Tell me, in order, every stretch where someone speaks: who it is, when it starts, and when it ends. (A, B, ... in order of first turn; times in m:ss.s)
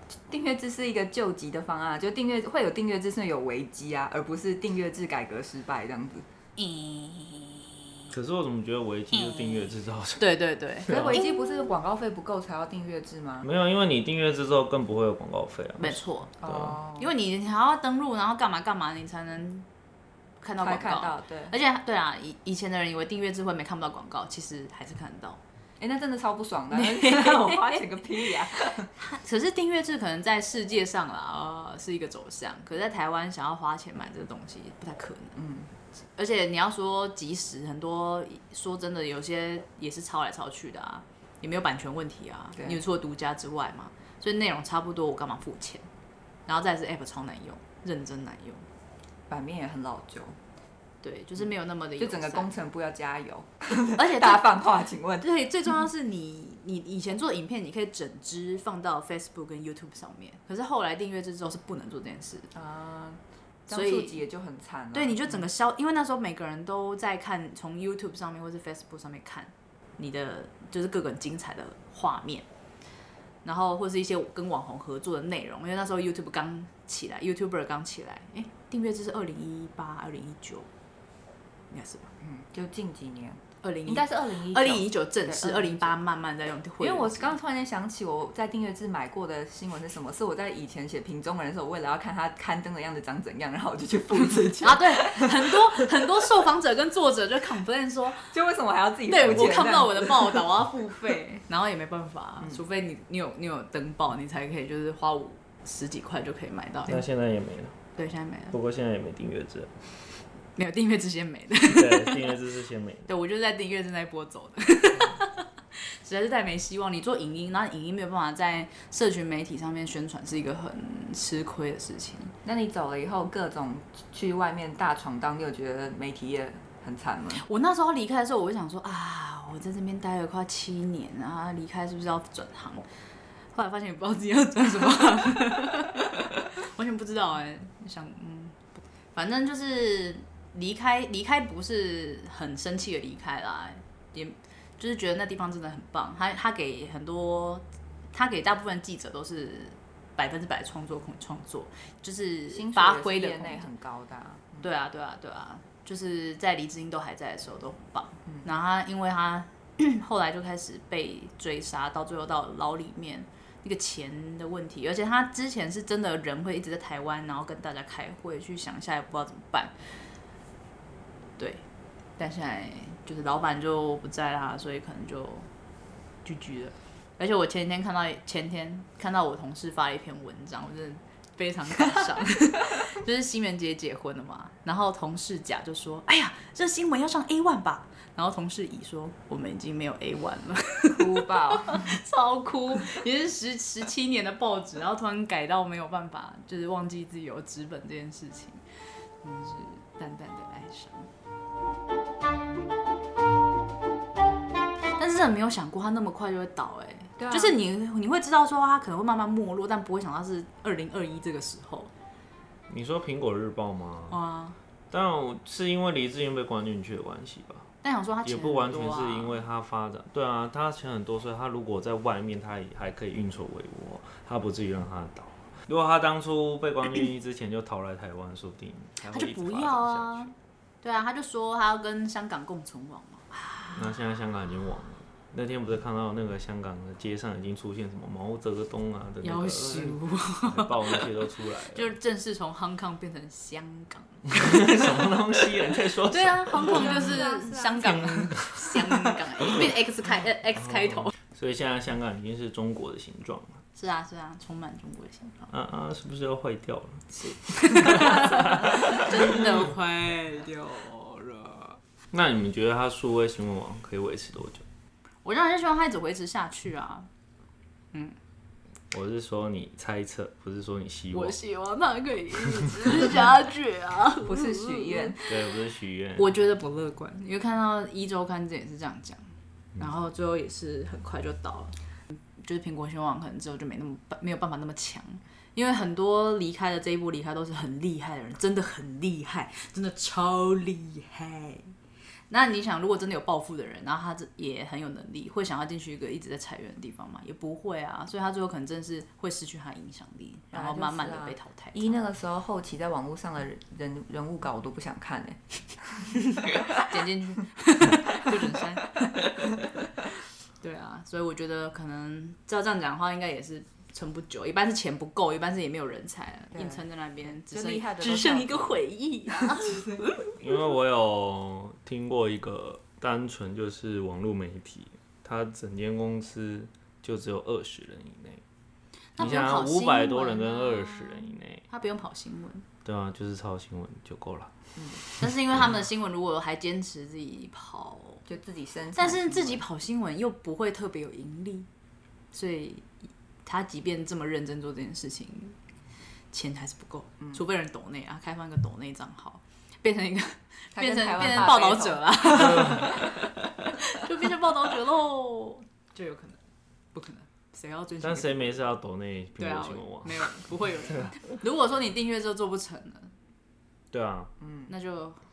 0:00.3-0:06.2 A
0:06.6-0:08.1 B
0:08.1-0:10.2 C
0:09.1-0:11.7 B
0:10.9-0:13.5 A
0:13.4-0:16.7 C
0:15.8-0:19.7 B
0:16.4-0:17.1 A
0:20.4-0:25.4 B
0:20.6-0:21.5 A
0:25.8-0:28.9 A
0:26.7-0:35.3 B
0:35.4-0:35.7 A
0:36.2-0:45.9 B
0:42.6-0:42.8 A
0:46.5-0:48.6 B
0:49.3-0:50.4 A
0:51.0-0:52.5 B
0:52.0-0:55.3 A
0:54.0-1:02.5 B
1:02.5-1:05.4 A
1:03.7-1:04.2 B
1:04.9-1:12.5 B
1:13.4-1:20.7 B
1:21.7-1:22.1 B
1:22.2-1:26.0 A
1:23.6-1:27.4 B
1:26.8-1:35.8 A
1:34.6-1:38.3 B
1:38.3-1:41.4 A
1:39.1-1:47.1 B
1:46.9-1:47.8 C
1:48.0-1:48.6 B
1:48.5-1:49.7 C
1:50.6-1:52.3 B
1:51.6-1:53.1 C
1:53.1-1:55.5 B
1:56.0-2:02.3 B
2:02.4-2:07.4 A
2:07.4-2:12.8 B
2:13.5-2:33.7 B
2:32.5-2:34.7 A
2:34.6-2:49.7 B
2:52.2-2:55.5 B
2:56.2-3:18.6 B
3:10.9-3:12.0 A
3:19.2-3:21.1 B
3:25.0-3:31.9 B
3:27.2-3:27.6 A
3:32.7-3:34.2 C
3:34.1-3:34.6 B
3:34.9-3:37.7 C
3:37.8-3:39.4 B
3:38.2-3:50.3 C
3:49.1-3:53.9 B
3:53.8-4:01.9 C
3:59.2-4:01.1 B
4:01.7-4:05.1 B
4:04.3-4:07.2 C
4:06.0-4:11.1 B
4:06.6-4:08.1 A
4:07.8-4:08.8 C
4:10.6-4:13.6 C
4:13.8-4:15.5 B
4:15.5-4:17.1 C
4:17.2-4:21.8 B
4:17.9-4:18.4 A
4:17.9-4:18.5 C
4:22.1-4:24.6 C
4:25.2-4:27.1 B
4:28.9-4:31.4 C
4:31.1-4:35.2 B
4:34.2-4:35.2 A
4:35.2-4:36.3 C
4:36.2-4:39.2 B
4:39.8-4:41.7 B
4:42.4-4:51.7 B
4:52.3-5:02.0 B
5:00.5-5:07.0 A
5:06.3-5:20.3 B
5:16.5-5:20.1 A
5:20.4-5:28.4 C
5:29.2-5:32.7 B
5:29.2-5:31.6 C
5:32.8-5:35.7 C
5:34.8-5:35.0 A
5:35.2-5:38.2 B
5:38.2-5:39.6 A
5:39.0-5:41.7 B
5:42.3-5:42.9 B
5:43.4-5:45.6 B
5:46.3-5:56.4 B
5:50.7-5:53.2 A
5:56.9-5:58.7 B
5:58.0-6:00.3 C
5:59.4-6:03.1 B
6:03.9-6:04.3 C
6:04.4-6:04.7 A
6:04.7-6:05.2 B